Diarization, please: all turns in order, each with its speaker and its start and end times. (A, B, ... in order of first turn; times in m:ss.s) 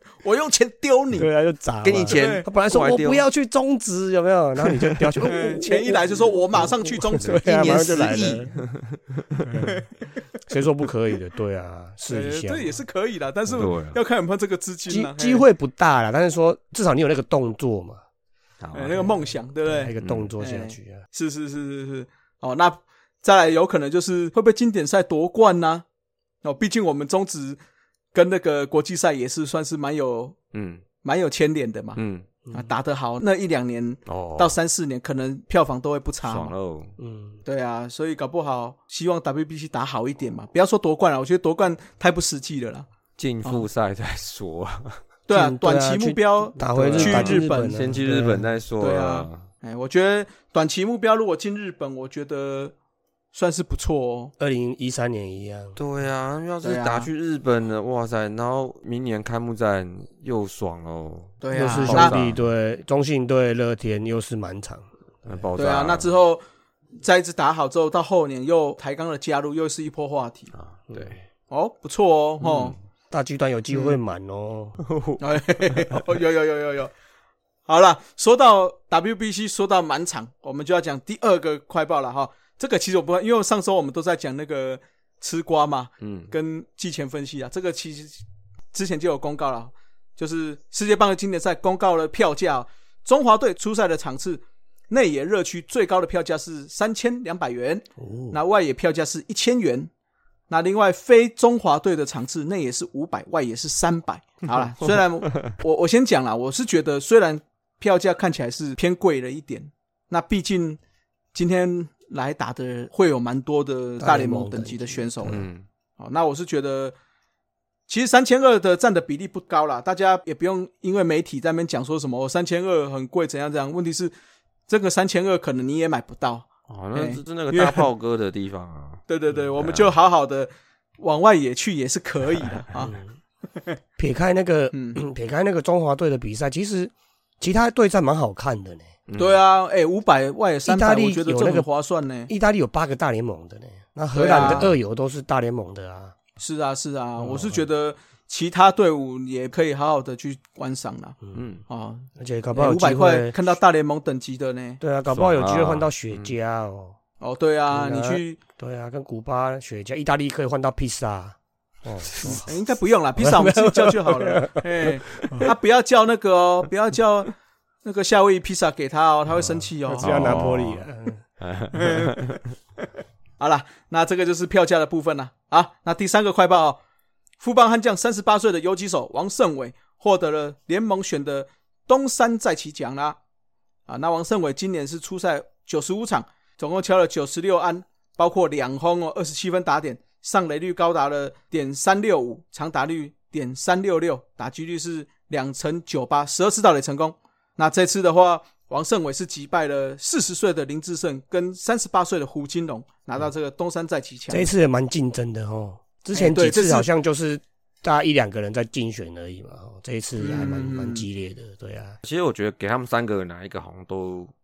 0:00.2-0:01.3 A
0:01.1-0:08.6 B
0:01.8-0:03.2 C
0:02.1-0:02.4 A
0:04.8-0:05.2 C
0:05.2-0:08.5 A
0:07.2-0:09.6 C
0:09.6-0:09.8 A
0:10.5-0:12.7 B
0:12.1-0:15.4 A
0:13.5-0:14.0 C
0:14.9-0:18.0 B
0:18.6-0:19.0 C
0:18.7-0:25.8 A
0:18.9-0:21.0 B
0:20.0-0:20.3 C
0:26.4-0:27.6 A
0:28.1-0:30.4 A
0:30.5-0:30.8 C
0:31.0-0:32.0 A
0:32.0-0:32.2 C
0:32.4-0:32.7 B
0:32.5-0:36.5 A
0:34.1-0:34.6 C
0:36.2-0:36.9 C
0:37.0-0:37.4 B
0:37.4-0:42.8 A
0:43.2-0:45.0 C
0:45.3-0:47.8 A
0:45.3-0:48.5 B
0:46.7-0:49.4 C
0:48.8-0:52.7 A
0:53.3-0:54.3 A
0:54.4-0:55.8 B
0:55.8-1:02.4 C
0:56.6-0:57.1 A
1:01.4-1:02.2 A
1:01.5-1:05.5 B
1:05.2-1:06.1 C
1:05.6-1:06.4 A
1:07.0-1:10.5 A
1:10.5-1:11.2 C
1:11.5-1:12.8 A
1:12.4-1:12.8 C
1:13.1-1:14.8 B
1:13.7-1:14.0 A
1:14.8-1:15.2 C
1:15.2-1:16.9 A
1:17.7-1:39.9 A
1:26.0-1:26.3 C
1:38.0-1:38.4 B
1:40.5-1:50.8 A
1:51.3-1:55.4 A
1:54.0-1:55.4 B
1:55.3-1:55.6 C
1:56.0-1:56.9 A
1:57.9-2:04.1 A
2:04.7-2:07.9 A
2:06.7-2:09.0 C
2:09.1-2:13.0 A
2:09.6-2:09.9 C
2:14.0-2:18.9 B
2:14.7-2:15.0 A
2:19.1-2:19.4 C
2:19.2-2:22.3 A
2:20.6-2:21.7 B
2:22.3-2:26.2 B
2:24.1-2:24.7 A
2:26.4-2:31.2 A
2:27.2-2:27.6 B
2:31.3-2:31.6 C
2:31.7-2:34.8 A
2:32.2-2:33.5 B
2:34.8-2:37.0 B
2:35.1-2:36.3 C
2:37.2-2:38.4 A
2:37.7-2:42.5 B
2:42.1-2:42.4 C
2:42.4-2:47.3 A
2:43.2-2:44.6 B
2:45.2-2:45.5 B
2:47.8-2:50.3 A
2:49.8-2:51.2 B
2:50.0-2:50.8 C
2:51.4-2:52.4 C
2:51.7-2:52.1 A
2:53.4-2:56.8 A
2:57.4-3:03.2 A
3:03.9-3:24.5 A
3:24.3-3:32.0 B
3:26.1-3:26.9 A
3:30.2-3:31.1 A
3:32.0-3:34.3 C